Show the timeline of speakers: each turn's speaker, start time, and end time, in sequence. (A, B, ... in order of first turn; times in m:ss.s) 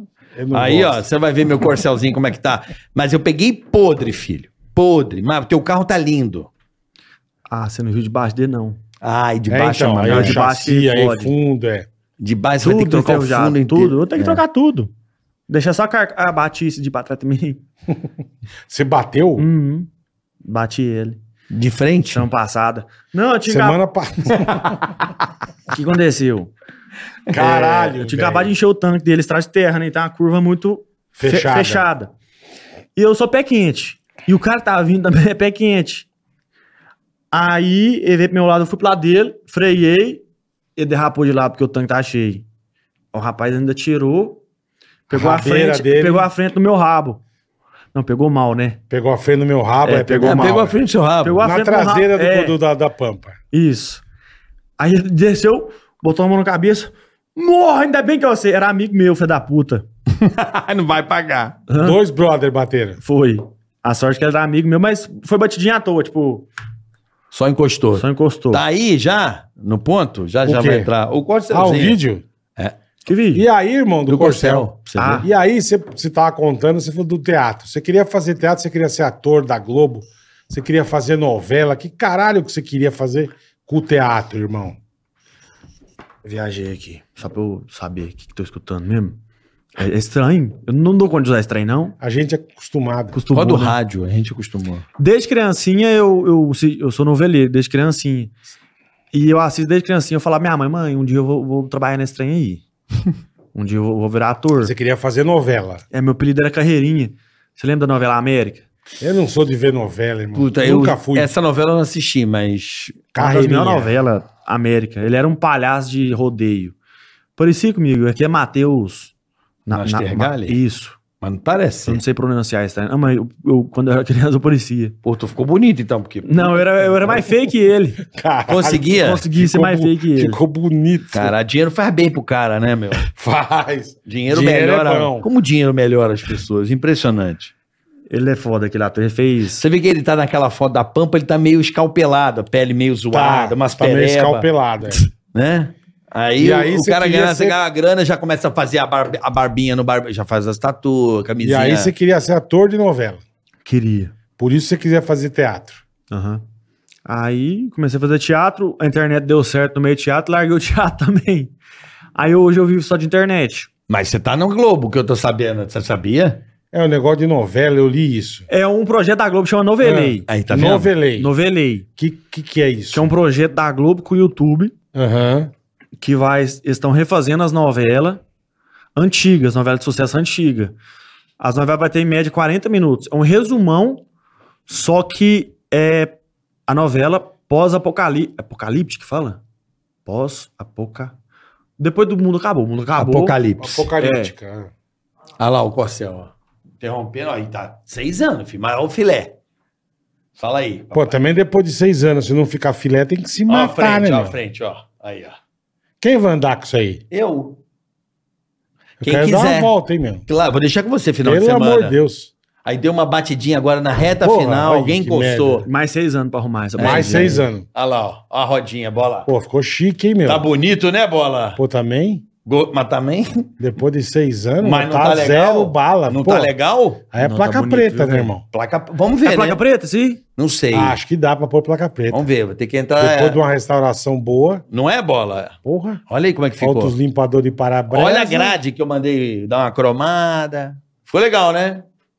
0:00.4-0:01.0 A
0:00.5-0:06.5 B
0:07.5-0:08.8 C
0:09.0-0:10.4 B
0:09.5-0:11.9 A
0:10.1-0:11.3 C
0:12.2-0:14.4 B
0:12.6-0:14.9 C
0:15.5-0:17.6 C
0:18.7-0:19.5 A
0:19.4-0:19.9 C
0:20.4-0:21.2 C
0:21.5-0:22.3 B
0:22.1-0:23.8 C
0:23.5-0:24.8 A
0:25.7-0:26.5 C
0:27.3-0:28.5 A
0:27.3-0:32.1 C
0:31.2-0:31.8 A
0:33.0-0:36.1 C
0:37.3-0:40.2 C
0:40.8-0:42.4 C
0:43.1-0:44.4 C
0:45.1-0:47.2 C
0:45.1-0:46.3 A
0:47.9-0:48.8 C
0:48.9-0:50.7 A
0:49.8-0:52.6 C
0:50.2-0:51.4 B
0:51.4-0:53.4 A
0:53.5-0:54.0 C
0:54.8-0:59.8 C
1:00.1-1:01.6 B
1:01.7-1:02.0 C
1:01.8-1:03.0 A
1:03.0-1:06.5 C
1:07.3-1:12.0 B
1:08.0-1:08.6 C
1:10.4-1:10.9 A
1:11.5-1:12.2 A
1:13.1-1:13.4 C
1:13.3-1:24.8 A
1:14.1-1:15.3 B
1:15.0-1:15.3 C
1:26.2-1:29.2 C
1:29.8-1:32.0 C
1:32.0-1:33.2 A
1:33.1-1:33.8 C
1:33.3-1:34.8 B
1:35.0-1:38.3 C
1:39.1-1:42.6 C
1:43.6-1:44.7 C
1:44.6-1:45.8 A
1:45.9-1:48.6 C
1:49.0-1:51.3 A
1:50.4-1:53.0 B
1:53.1-1:53.9 A
1:53.2-1:56.7 C
1:57.4-1:59.1 C
1:59.7-2:01.0 C
1:59.7-2:00.6 B
2:01.2-2:02.0 B
2:01.9-2:05.0 C
2:05.0-2:07.1 B
2:06.2-2:08.0 C
2:08.1-2:11.3 A
2:08.5-2:09.3 B
2:09.0-2:10.4 C
2:11.1-2:13.1 B
2:13.0-2:15.3 A
2:14.1-2:17.5 B
2:18.1-2:19.6 C
2:19.6-2:31.9 B
2:23.1-2:25.0 A
2:26.4-2:27.6 A
2:31.4-2:33.2 A
2:33.6-2:34.1 C
2:34.4-2:35.8 A
2:36.1-2:36.4 C
2:37.1-2:41.5 C
2:42.2-2:43.7 C
2:43.9-2:46.4 B
2:46.7-2:48.5 A
2:48.5-2:50.3 C
2:49.8-2:51.3 A
2:50.3-2:50.9 B
2:51.2-2:51.9 C
2:52.0-2:53.1 A
2:52.9-2:54.7 C
2:54.9-2:55.5 A
2:56.0-2:58.2 C
2:59.0-3:00.7 C
3:01.4-3:04.0 C
3:04.7-3:06.1 C
3:06.7-3:09.4 C
3:10.0-3:11.1 C
3:11.8-3:13.4 C
3:13.0-3:13.9 B
3:13.6-3:14.7 A
3:14.0-3:14.3 C
3:15.4-3:19.4 B
3:20.4-3:21.1 B
3:20.9-3:24.4 A
3:23.5-3:25.4 B
3:26.0-3:27.0 A
3:27.1-3:27.6 B
3:29.0-3:30.2 A
3:29.0-3:29.7 B
3:30.3-3:32.0 B
3:31.2-3:32.3 A
3:32.6-3:35.6 B
3:34.2-3:35.7 A
3:35.7-3:37.4 C
3:36.8-3:39.3 B
3:36.8-3:37.7 A
3:39.3-3:40.5 A
3:40.3-3:41.6 B
3:41.6-3:42.2 A
3:42.4-3:43.5 B
3:43.6-3:46.5 A
3:44.6-3:47.0 B
3:47.1-3:48.4 A
3:47.2-3:48.3 C
3:48.5-3:49.6 B
3:49.2-3:50.2 C
3:50.4-3:51.0 B
3:50.7-3:52.2 A
3:52.1-3:53.4 B
3:53.0-3:54.6 A
3:54.7-3:55.6 B
3:55.6-3:56.0 A
3:56.1-3:57.0 B
3:56.6-3:58.6 A
3:57.9-4:01.8 B